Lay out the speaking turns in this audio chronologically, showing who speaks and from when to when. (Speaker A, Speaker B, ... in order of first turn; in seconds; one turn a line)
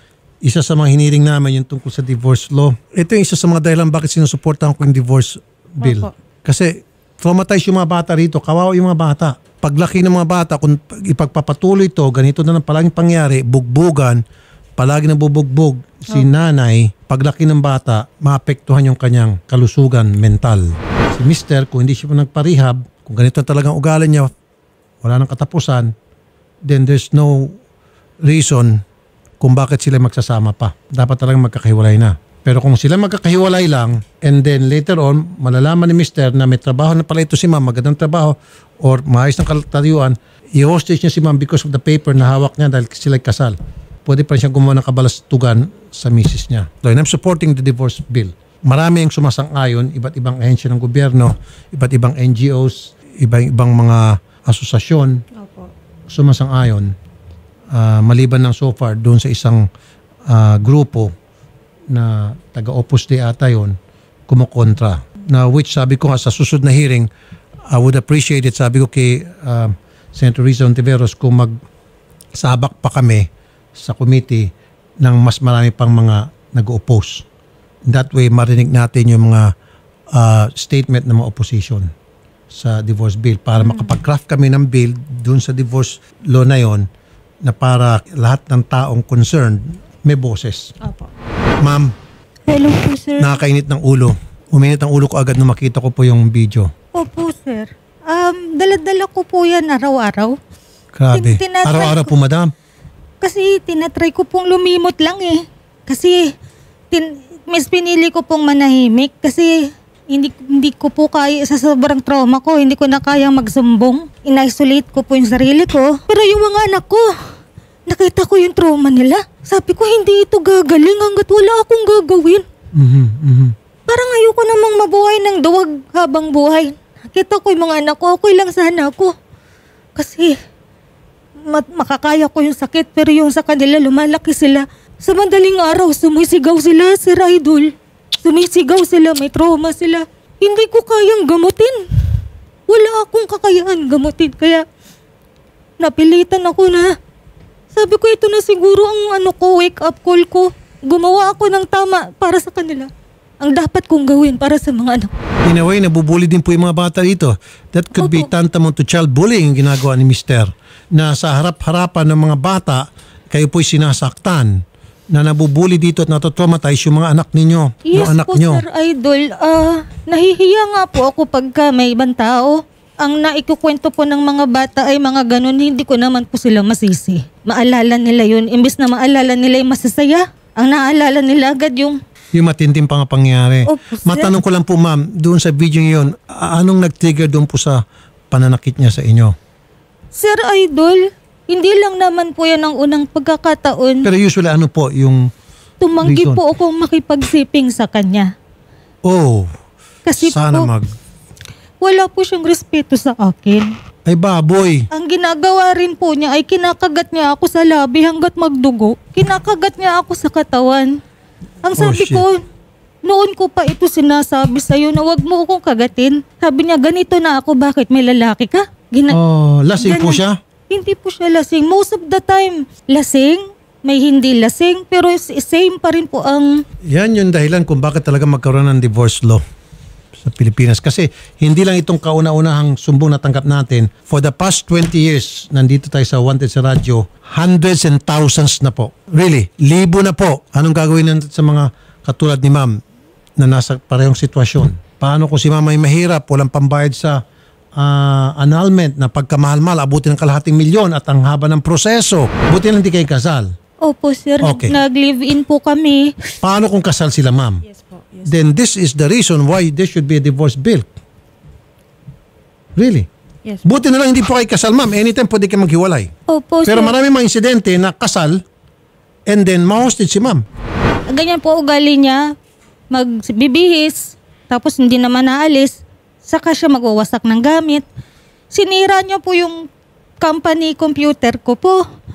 Speaker A: 0.4-14.2
Speaker B: 5.8-6.1
Speaker A: 14.8-24.3
Speaker A: 25.0-25.9
Speaker A: 26.6-27.6
Speaker A: 28.2-28.8
Speaker A: 29.4-55.2
Speaker B: 55.4-55.7
Speaker A: 56.1-56.9
Speaker A: 57.7-59.7
Speaker A: 60.3-61.1
Speaker A: 61.9-63.8
Speaker A: 64.3-67.1
Speaker A: 67.7-71.6
Speaker A: 72.3-74.5
Speaker A: 75.0-77.2
Speaker A: 77.9-79.5
Speaker A: 80.1-81.9
Speaker A: 82.5-86.9
Speaker B: 83.6-83.9
Speaker A: 87.4-90.7
Speaker B: 90.8-91.1
Speaker A: 91.6-91.9
Speaker C: 92.5-93.3
Speaker A: 93.2-96.7
Speaker C: 96.9-100.4
Speaker A: 101.0-102.5
Speaker C: 101.1-102.1
Speaker C: 103.2-106.3
Speaker C: 106.9-117.1
Speaker C: 117.9-122.4
Speaker A: 122.7-123.5
Speaker C: 123.9-129.1
Speaker C: 129.9-130.4
Speaker C: 131.4-141.8
Speaker C: 142.7-144.6
Speaker C: 145.8-146.9
Speaker C: 147.7-152.9
Speaker C: 153.4-155.1
Speaker A: 155.4-168.6
Speaker C: 158.0-158.3
Speaker C: 167.9-182.0
Speaker A: 182.3-189.3
Speaker C: 183.7-184.3
Speaker C: 190.2-194.1
Speaker A: 194.0-195.3
Speaker C: 195.8-198.3
Speaker A: 196.0-196.4
Speaker A: 199.1-199.5
Speaker C: 200.1-200.7
Speaker A: 200.2-200.9
Speaker C: 201.8-203.7
Speaker A: 204.1-204.9
Speaker C: 204.9-210.9
Speaker C: 211.6-212.4
Speaker A: 211.8-212.2
Speaker C: 213.0-219.2
Speaker A: 219.1-220.4
Speaker C: 219.8-226.6
Speaker A: 226.8-229.4
Speaker A: 230.2-242.8
Speaker A: 243.4-247.2
Speaker A: 247.8-253.5
Speaker C: 253.8-256.1
Speaker A: 254.4-254.8
Speaker A: 256.4-257.6
Speaker B: 257.6-258.5
Speaker A: 258.2-260.9
Speaker A: 262.8-263.1
Speaker B: 263.4-263.8
Speaker A: 263.6-266.1
Speaker C: 266.3-266.9
Speaker A: 266.6-268.4
Speaker A: 269.3-270.4
Speaker C: 271.1-272.3
Speaker C: 272.9-277.8
Speaker C: 278.5-279.6
Speaker C: 280.2-281.8